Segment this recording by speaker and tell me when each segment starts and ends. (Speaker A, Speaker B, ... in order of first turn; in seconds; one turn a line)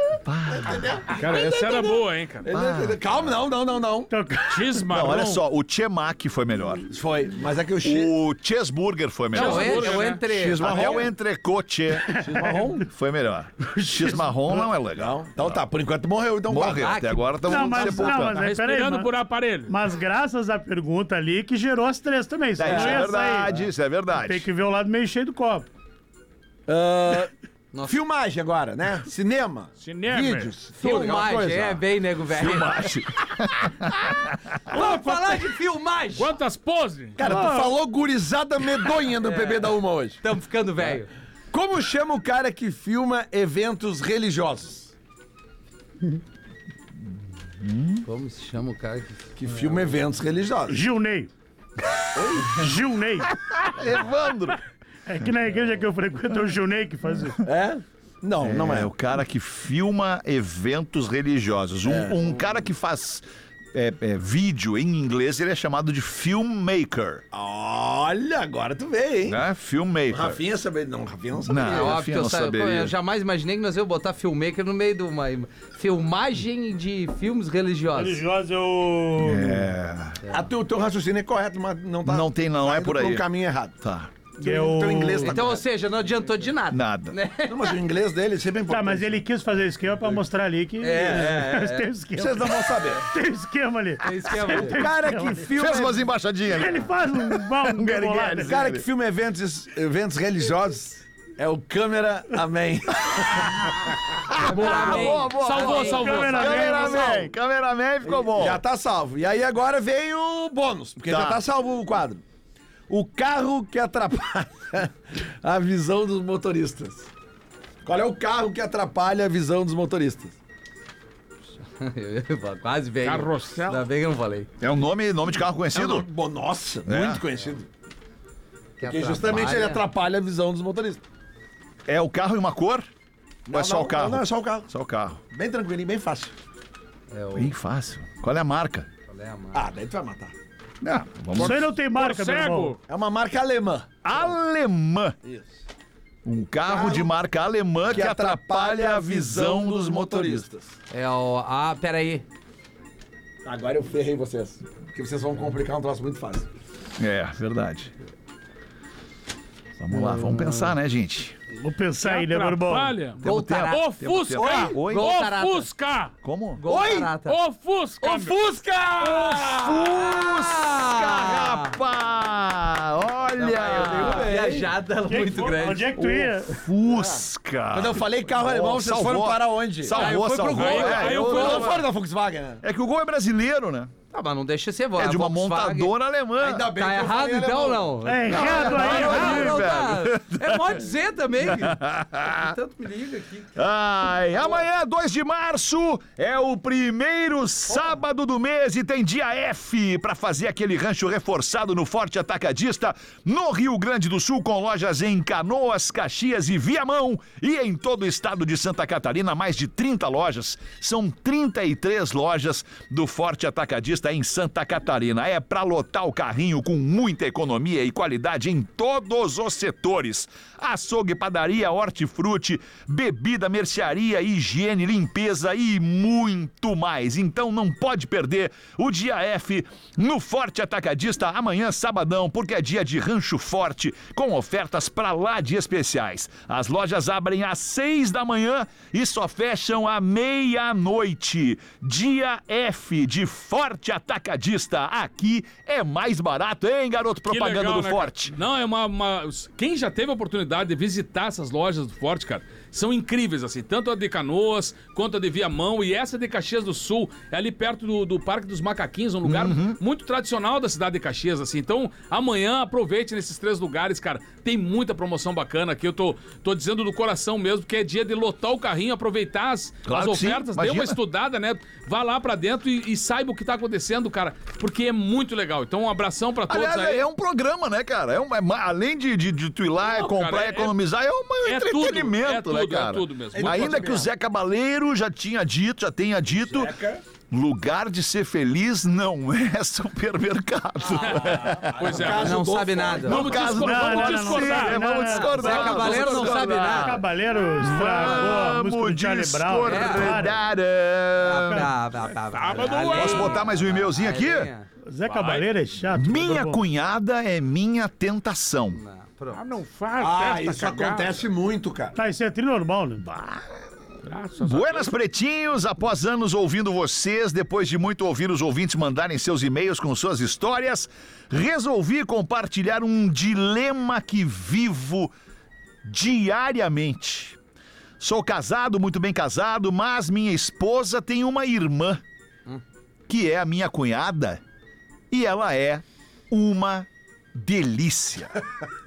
Speaker A: 0.2-1.0
Speaker B: 0.5-4.1
Speaker C: 1.1-2.5
Speaker A: 2.5-3.4
Speaker D: 4.1-4.8
Speaker C: 4.5-5.4
Speaker A: 4.9-6.8
Speaker B: 5.0-5.3
Speaker B: 6.9-8.1
Speaker A: 7.8-10.0
Speaker C: 9.3-10.2
Speaker E: 9.3-11.0
Speaker B: 9.9-11.1
Speaker A: 10.6-12.2
Speaker D: 12.1-12.7
Speaker B: 12.1-12.9
Speaker A: 12.8-15.6
Speaker D: 13.7-14.7
Speaker B: 14.9-16.9
Speaker A: 16.5-18.4
Speaker E: 16.8-17.9
Speaker D: 17.4-19.1
Speaker C: 18.2-19.7
Speaker D: 19.7-23.5
Speaker A: 22.6-24.5
Speaker B: 22.6-23.1
Speaker D: 24.2-25.7
Speaker B: 26.7-27.3
Speaker E: 27.7-28.0
Speaker B: 27.8-31.8
Speaker C: 29.8-30.8
Speaker E: 30.8-32.9
Speaker A: 32.3-34.6
Speaker E: 34.7-36.3
Speaker C: 36.1-37.2
Speaker B: 37.2-40.2
Speaker D: 37.2-37.7
Speaker E: 39.2-41.1
Speaker B: 41.5-44.9
Speaker A: 47.6-48.0
Speaker E: 48.0-49.2
Speaker B: 49.4-50.8
Speaker D: 50.7-51.3
Speaker B: 52.1-52.7
Speaker D: 52.5-53.3
Speaker A: 53.2-54.6
Speaker D: 55.1-57.4
Speaker B: 57.4-58.9
Speaker A: 58.4-67.2
Speaker B: 61.8-62.4
Speaker B: 67.3-69.4
Speaker A: 69.2-70.4
Speaker B: 70.1-72.0
Speaker A: 71.5-72.9
Speaker E: 71.6-78.2
Speaker D: 77.9-79.7
Speaker A: 79.2-80.2
Speaker B: 80.3-83.8
Speaker A: 82.0-83.2
Speaker A: 83.8-84.1
Speaker D: 84.4-85.4
Speaker B: 84.4-85.6
Speaker E: 85.2-87.8
Speaker A: 86.7-87.2
Speaker B: 87.5-89.2
Speaker D: 88.7-95.5
Speaker E: 90.8-91.9
Speaker B: 90.9-91.5
Speaker B: 92.2-93.0
Speaker E: 94.0-94.8
Speaker B: 94.5-96.0
Speaker A: 95.5-98.8
Speaker D: 96.5-98.6
Speaker B: 98.4-103.9
Speaker A: 104.3-108.6
Speaker B: 104.4-105.1
Speaker E: 104.4-106.5
Speaker C: 104.6-106.8
Speaker D: 105.8-107.3
Speaker B: 108.0-112.2
Speaker A: 111.0-111.4
Speaker B: 112.9-117.1
Speaker B: 117.8-120.3
Speaker E: 121.8-124.5
Speaker C: 123.0-123.8
Speaker A: 124.6-126.1
Speaker B: 125.7-127.7
Speaker A: 126.9-127.2
Speaker E: 128.8-129.8
Speaker B: 128.8-131.0
Speaker A: 131.9-132.9
Speaker B: 133.5-134.7
Speaker A: 133.5-135.2
Speaker B: 135.3-136.3
Speaker E: 137.1-137.5
Speaker A: 137.3-138.9
Speaker E: 139.1-139.6
Speaker B: 139.5-140.3
Speaker A: 140.8-141.6
Speaker D: 141.3-142.8
Speaker C: 141.3-142.8
Speaker B: 142.9-144.3
Speaker A: 144.0-145.1
Speaker B: 145.2-145.5
Speaker A: 146.2-150.4
Speaker B: 146.7-147.1
Speaker B: 147.8-150.7
Speaker E: 150.9-152.2
Speaker B: 153.4-156.5
Speaker A: 157.0-157.9
Speaker A: 159.8-161.4
Speaker D: 161.5-162.9
Speaker C: 162.0-166.1
Speaker A: 163.2-165.1
Speaker E: 163.2-163.9
Speaker B: 164.4-164.8
Speaker E: 164.8-165.7
Speaker A: 166.2-166.6
Speaker E: 166.6-167.4
Speaker B: 166.7-167.1
Speaker C: 167.2-168.4
Speaker E: 168.0-168.3
Speaker B: 168.0-170.0
Speaker A: 169.0-174.4
Speaker E: 169.7-171.7
Speaker E: 173.4-175.9
Speaker B: 173.5-174.8
Speaker D: 175.1-176.6
Speaker A: 176.0-181.8
Speaker B: 176.8-177.2
Speaker B: 177.7-180.1
Speaker C: 179.9-181.8
Speaker E: 180.0-181.2
Speaker B: 180.8-182.6
Speaker A: 182.6-183.9
Speaker E: 184.1-185.9
Speaker A: 185.0-186.7
Speaker B: 186.4-187.9
Speaker E: 186.7-193.6
Speaker D: 188.0-189.7
Speaker A: 188.3-190.8
Speaker A: 191.4-192.6
Speaker A: 193.6-248.3
Speaker C: 247.3-277.0
Speaker A: 259.2-259.8
Speaker A: 269.9-271.0
Speaker A: 276.5-286.8
Speaker C: 279.8-280.7
Speaker C: 281.4-283.9
Speaker B: 283.3-284.1
Speaker B: 286.4-287.0
Speaker A: 287.3-292.0
Speaker C: 290.9-292.4
Speaker B: 291.1-293.4
Speaker E: 292.0-293.4
Speaker C: 293.0-296.5
Speaker A: 293.0-296.9
Speaker D: 293.5-295.8
Speaker E: 295.2-297.0
Speaker B: 295.8-296.8
Speaker D: 296.7-300.4
Speaker A: 297.6-301.7
Speaker E: 297.9-298.5
Speaker E: 299.6-300.3
Speaker E: 301.2-304.7
Speaker C: 302.3-303.4
Speaker A: 302.8-304.5
Speaker D: 304.9-306.6
Speaker C: 305.1-305.4
Speaker A: 305.9-308.8
Speaker E: 308.7-309.4
Speaker C: 309.3-311.2
Speaker B: 310.0-312.0
Speaker D: 311.9-313.1
Speaker A: 313.0-313.4
Speaker C: 314.1-314.9
Speaker A: 314.4-325.1
Speaker A: 325.8-327.4
Speaker A: 328.0-332.0
Speaker A: 333.1-334.4
Speaker A: 335.1-338.3